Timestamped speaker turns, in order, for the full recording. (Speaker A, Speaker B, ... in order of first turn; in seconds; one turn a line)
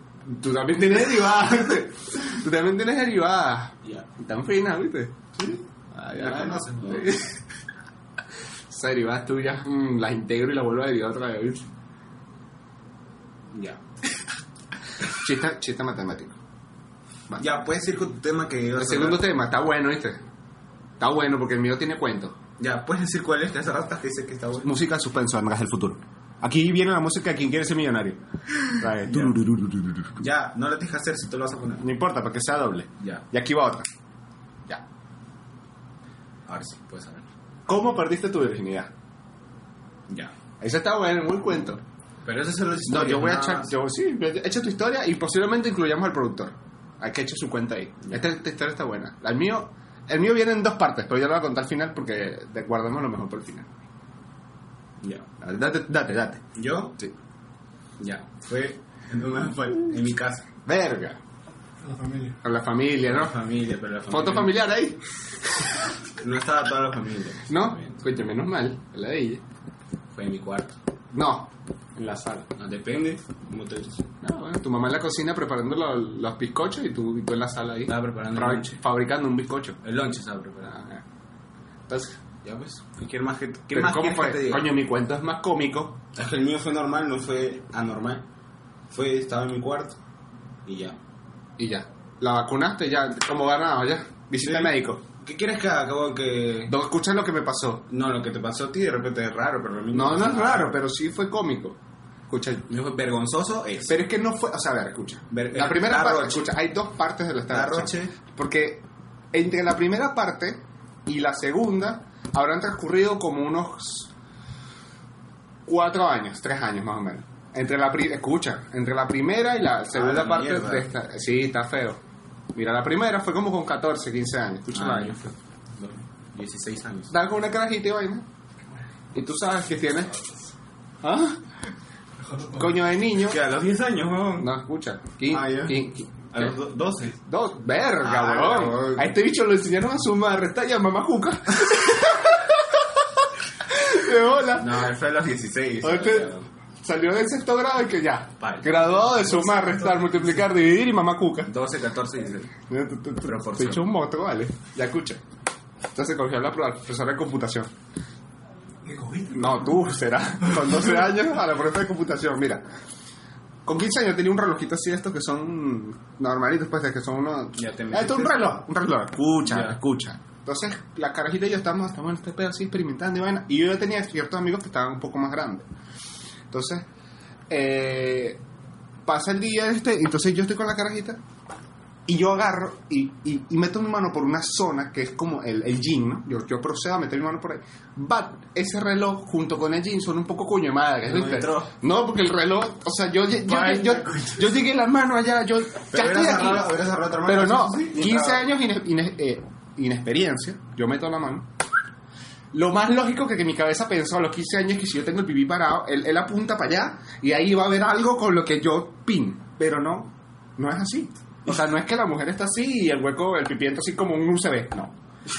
Speaker A: 0.2-5.2
Speaker B: 5.3-5.6
Speaker A: 5.9-7.4
Speaker B: 6.1-7.2
Speaker A: 8.7-11.7
Speaker B: 13.5-13.8
Speaker A: 15.2-16.4
Speaker A: 17.3-17.6
Speaker B: 17.4-19.2
Speaker A: 18.8-20.2
Speaker A: 21.0-22.4
Speaker B: 22.6-24.7
Speaker A: 24.6-30.2
Speaker B: 29.1-29.3
Speaker B: 30.1-31.9
Speaker A: 31.8-33.9
Speaker B: 36.5-37.2
Speaker A: 37.7-38.9
Speaker A: 40.6-41.8
Speaker B: 42.2-43.7
Speaker A: 42.9-53.7
Speaker B: 55.0-55.3
Speaker A: 55.4-56.4
Speaker B: 56.5-57.1
Speaker B: 58.0-60.5
Speaker A: 60.6-61.2
Speaker C: 61.8-62.4
Speaker A: 62.4-63.4
Speaker B: 63.0-64.5
Speaker A: 64.1-65.8
Speaker B: 66.2-68.0
Speaker A: 67.5-69.4
Speaker B: 70.1-70.8
Speaker A: 71.1-72.4
Speaker B: 72.4-74.0
Speaker A: 74.2-79.8
Speaker B: 77.9-78.8
Speaker B: 79.8-80.8
Speaker A: 80.7-81.0
Speaker A: 81.9-82.2
Speaker B: 82.4-84.7
Speaker A: 83.7-86.0
Speaker B: 86.1-88.2
Speaker B: 88.9-90.0
Speaker B: 90.7-91.0
Speaker A: 91.6-95.0
Speaker B: 94.4-96.7
Speaker A: 96.7-97.9
Speaker B: 97.9-100.7
Speaker A: 99.9-101.8
Speaker A: 102.3-102.7
Speaker B: 102.7-104.0
Speaker A: 103.9-114.1
Speaker B: 105.3-106.5
Speaker B: 107.5-108.1
Speaker A: 115.7-122.0
Speaker B: 119.9-120.9
Speaker A: 122.5-125.2
Speaker B: 124.7-127.1
Speaker A: 127.1-128.2
Speaker A: 129.1-130.1
Speaker A: 131.0-131.4
Speaker C: 132.2-132.7
Speaker A: 132.5-133.4
Speaker B: 133.2-134.5
Speaker A: 134.4-136.5
Speaker B: 135.3-137.2
Speaker A: 137.2-144.9
Speaker B: 138.0-139.1
Speaker B: 144.5-146.5
Speaker A: 145.8-146.3
Speaker A: 146.8-151.5
Speaker B: 148.4-149.3
Speaker C: 149.4-150.3
Speaker B: 151.4-152.5
Speaker A: 152.7-155.2
Speaker B: 153.2-153.8
Speaker A: 155.9-157.7
Speaker C: 158.8-159.8
Speaker A: 159.3-162.6
Speaker A: 163.6-175.7
Speaker B: 167.5-168.6
Speaker B: 169.4-169.8
Speaker A: 176.5-176.9
Speaker A: 177.5-178.4
Speaker A: 179.0-181.2
Speaker A: 182.1-201.5
Speaker B: 191.0-191.7
Speaker B: 193.5-194.4
Speaker B: 195.9-198.5
Speaker A: 202.5-214.9